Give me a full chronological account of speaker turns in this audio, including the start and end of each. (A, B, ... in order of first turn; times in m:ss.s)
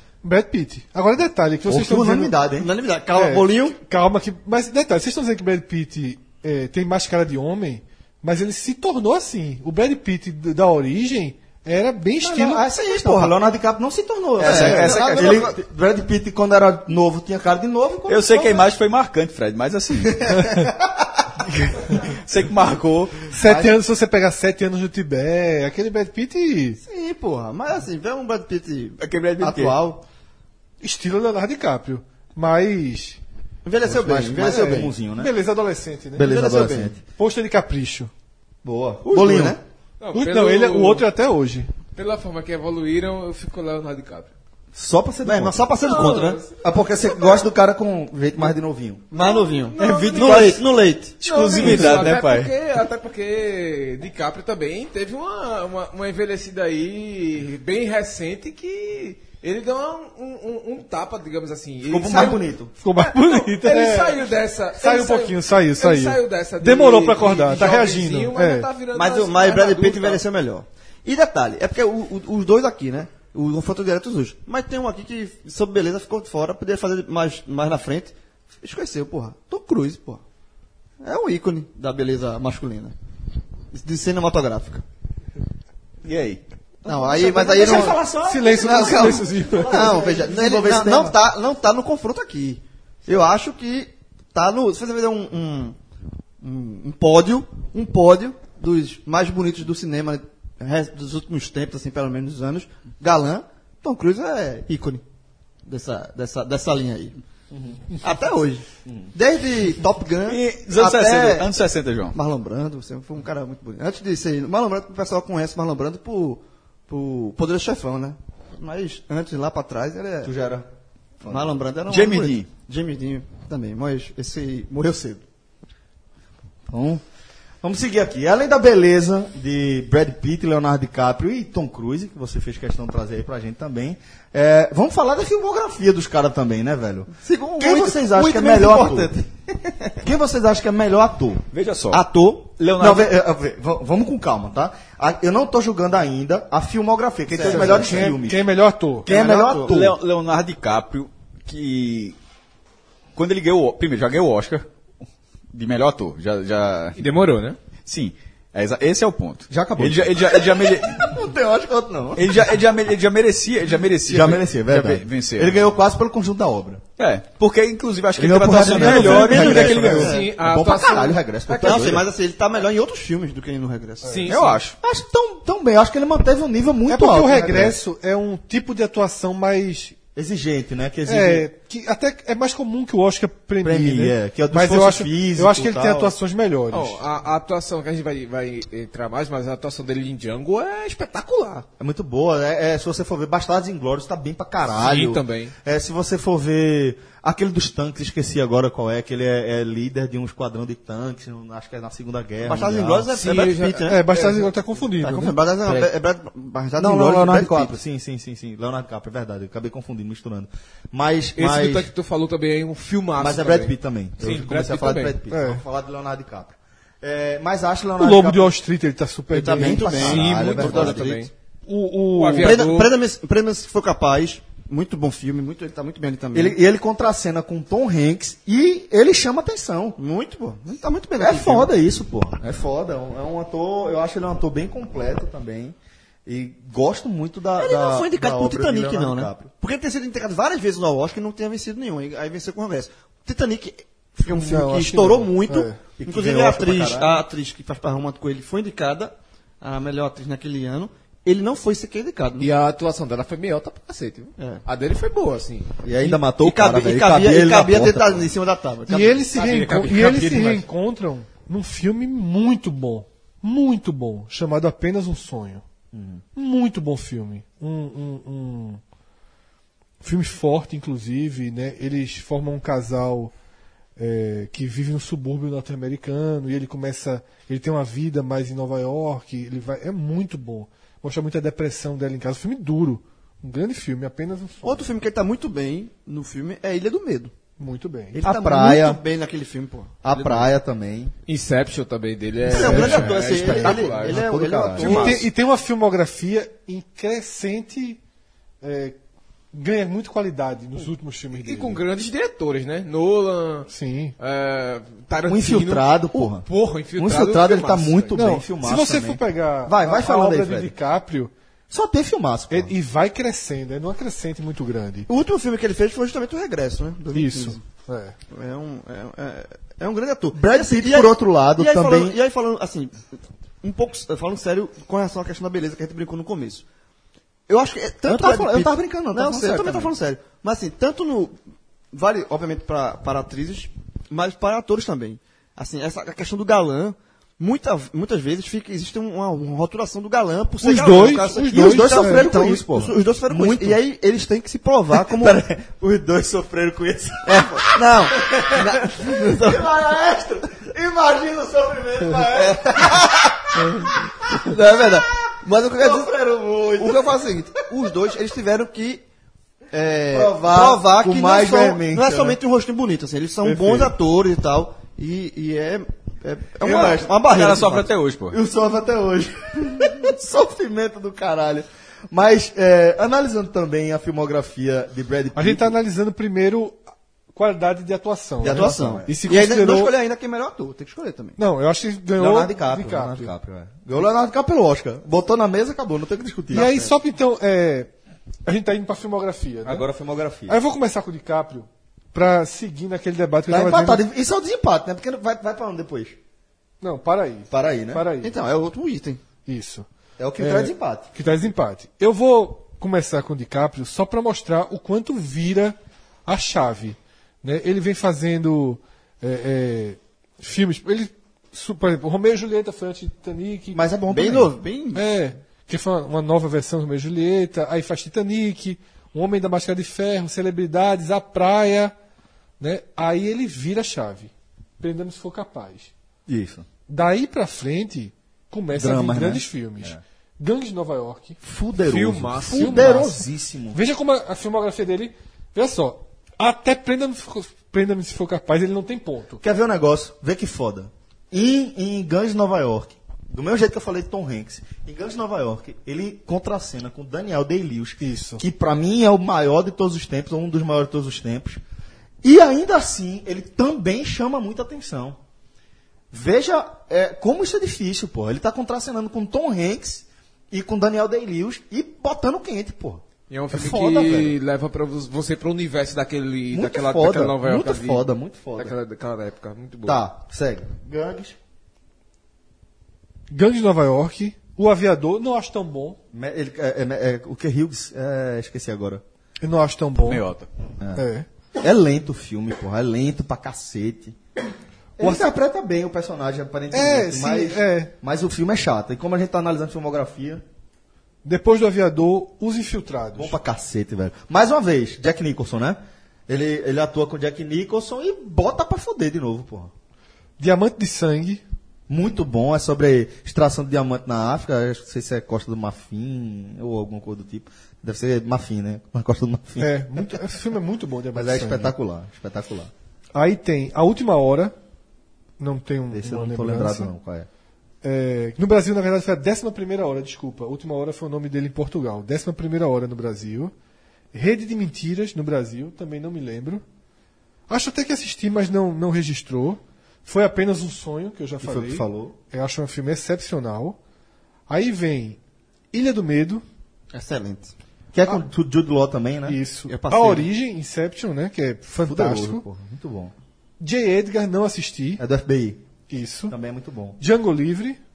0:00.2-0:02.4 A
0:01.7-0:02.7 B
0:02.6-0:03.8 C
0:03.1-0:12.6 A
0:12.2-0:18.6 B
0:12.5-0:13.3 C
0:14.4-0:15.6 C
0:14.4-0:15.5 D
0:18.1-0:20.7 D
0:21.4-0:23.2 D
0:23.3-0:26.8 A
0:23.4-0:23.8 B
0:26.8-0:30.0 C
0:29.0-0:29.8 D
0:30.8-0:33.2 A
0:33.6-0:34.9 C
0:33.8-0:35.3 B
0:34.4-0:36.3 A
0:36.2-0:37.0 B
0:36.2-0:37.0 C
0:37.2-0:38.1 A
0:38.6-0:39.6 B
0:39.1-0:39.6 C
0:40.0-0:41.1 E
0:40.1-0:41.7 A
0:41.9-0:44.3 E
0:44.7-0:45.7 B
0:45.2-0:46.4 C
0:45.8-0:46.5 E
0:46.6-0:49.0 B
0:49.1-0:52.1 C
0:49.2-0:50.6 E
0:49.8-0:50.7 D
0:51.2-0:52.5 D
0:51.2-1:02.4 E
1:01.8-1:02.7 B
1:02.8-1:08.7 A
1:03.0-1:10.2 E
1:08.9-1:20.2 C
1:21.0-1:23.0 C
1:23.7-1:24.8 C
1:26.0-1:26.4 D
1:26.8-1:35.8 C
1:26.9-1:31.2 B
1:28.2-1:30.0 A
1:36.4-1:45.0 C
1:45.6-1:47.2 C
1:47.5-1:47.9 B
1:48.0-1:51.5 C
1:48.8-1:49.1 B
1:50.3-1:52.2 D
1:52.1-2:00.3 C
2:00.2-2:00.7 B
2:01.2-2:01.6 B
2:01.3-2:05.2 C
2:01.9-2:02.5 D
2:06.7-2:07.0 B
2:07.6-2:19.2 B
2:17.2-2:19.2 C
2:20.0-2:28.5 B
2:21.5-2:22.0 D
2:22.6-2:23.1 D
2:27.3-2:28.1 C
2:27.4-2:29.1 A
2:29.0-2:30.0 B
2:29.0-2:29.8 C
2:29.7-2:32.2 D
2:33.2-2:34.6 D
2:35.5-2:37.0 D
2:37.0-2:37.6 E
2:37.9-2:41.1 D
2:39.5-2:42.5 B
2:42.2-2:45.7 D
2:44.1-2:46.8 B
2:47.0-2:50.1 D
2:48.2-2:52.1 B
2:48.6-2:50.3 C
2:49.8-2:51.9 E
2:51.6-2:54.3 C
2:54.0-2:54.3 A
2:54.1-2:54.6 E
2:54.3-2:54.8 D
2:54.8-2:57.8 B
2:56.9-3:00.0 A
3:00.2-3:01.5 B
3:01.1-3:07.0 A
3:03.6-3:06.1 B
3:06.7-3:11.7 E
3:11.8-3:23.1 B
3:14.7-3:15.5 E
3:22.4-3:24.0 C
3:23.1-3:24.5 E
3:23.9-3:25.4 A
3:25.0-3:27.8 C
3:26.8-3:31.9 B
3:31.4-3:35.2 E
3:33.2-3:38.6 B
3:35.3-3:35.6 A
3:38.0-3:40.0 A
3:39.3-3:41.3 C
3:39.4-3:41.2 B
3:39.8-3:41.3 E
3:41.7-3:42.6 A
3:42.1-3:43.0 E
3:42.4-3:46.6 C
3:46.3-3:50.0 B
3:50.0-3:51.7 C
3:51.2-3:59.5 B
3:57.6-4:12.5 C
4:04.3-4:05.8 A
4:06.0-4:07.2 B
4:12.4-4:15.8 E
4:14.4-4:14.6 C
4:15.8-4:18.3 B
4:16.2-4:19.2 C
4:18.9-4:25.6 A
4:19.3-4:20.7 E
4:25.9-4:26.2 B
4:26.4-4:28.8 A
4:30.0-4:33.3 A
4:34.0-4:44.9 A
4:44.6-4:47.3 C
4:47.6-4:48.2 A
4:48.1-4:50.5 C
4:48.2-4:49.0 B
4:50.0-4:51.1 B
4:51.3-4:54.2 E
4:52.4-4:55.3 C
4:52.5-4:53.9 A
4:53.6-4:55.2 B
4:54.8-4:58.0 A
4:54.8-4:55.1 E
4:58.6-4:59.0 A
4:59.5-5:01.8 A
5:01.3-5:08.2 E
5:03.7-5:04.2 A
5:05.3-5:10.8 B
5:08.1-5:11.3 A
5:11.7-5:12.7 B
5:12.5-5:15.1 A
5:15.1-5:17.6 C
5:17.1-5:18.2 A
5:18.3-5:26.6 C
5:20.3-5:22.2 B
5:27.5-5:31.4 C
5:28.0-5:29.9 B
5:31.9-5:45.4 C
5:40.6-5:42.3 A
5:41.4-5:43.8 B
5:44.9-5:53.9 B
5:47.3-5:49.7 C
5:52.3-5:56.1 C
5:55.7-5:57.2 B
5:56.8-5:59.0 C
5:59.7-6:07.9 C
6:00.1-6:02.4 B
6:03.4-6:04.0 B
6:06.6-6:07.1 B
6:07.3-6:08.4 D
6:08.3-6:15.8 B
6:15.4-6:16.8 A
6:17.3-6:19.9 A
6:18.4-6:19.2 B
6:18.4-6:21.4 C
6:21.4-6:23.3 A
6:22.2-6:26.9 B
6:26.5-6:27.9 A
6:28.5-6:29.9 A
6:29.6-6:30.6 B
6:30.5-6:34.0 A
6:33.5-6:36.2 B
6:36.8-6:38.4 A
6:37.5-6:38.1 B
6:38.2-6:39.2 C
6:39.5-6:39.9 A
6:40.2-6:41.1 B
6:40.4-6:53.8 A
6:53.7-6:54.6 B
6:54.1-6:55.1 C
6:54.9-7:01.9 A
7:02.6-7:05.9 A
7:06.3-7:06.7 B
7:06.9-7:11.4 A
7:08.7-7:10.0 B
7:11.4-7:13.8 B
7:11.8-7:13.1 E
7:12.5-7:19.4 A
7:19.4-7:31.6 B
7:28.0-7:28.4 A
7:32.2-7:35.2 B
7:36.1-7:44.4 B
7:43.3-7:50.0 E
7:46.5-7:48.8 B
7:49.8-7:51.4 B
7:53.3-7:56.0 A
7:56.1-7:59.0 B
7:59.4-8:00.2 A
8:00.0-8:00.5 D
8:00.8-8:01.0 B
8:01.0-8:01.3 A
8:01.6-8:04.2 B
8:05.0-8:10.4 B
8:05.0-8:05.3 A
8:06.7-8:07.9 A
8:11.2-8:13.4 A
8:13.2-8:19.7 B
8:20.4-8:21.4 A
8:21.9-8:30.2 B
8:29.6-8:31.8 A
8:31.1-8:32.7 B
8:33.2-8:34.5 A
8:35.4-8:36.9 A
8:35.9-8:37.3 B
8:37.8-8:43.5 A
8:44.1-8:46.6 A
8:47.5-8:53.8 A
8:51.4-8:52.2 B
8:54.5-8:55.2 A
8:55.7-8:56.4 A
8:56.9-8:57.5 C
8:57.9-8:59.4 B
8:59.2-9:02.4 A
8:59.7-9:00.3 C
9:01.8-9:03.1 B
9:03.6-9:05.0 A
9:05.0-9:05.6 B
9:05.9-9:06.4 A
9:06.3-9:07.0 B
9:07.0-9:07.8 A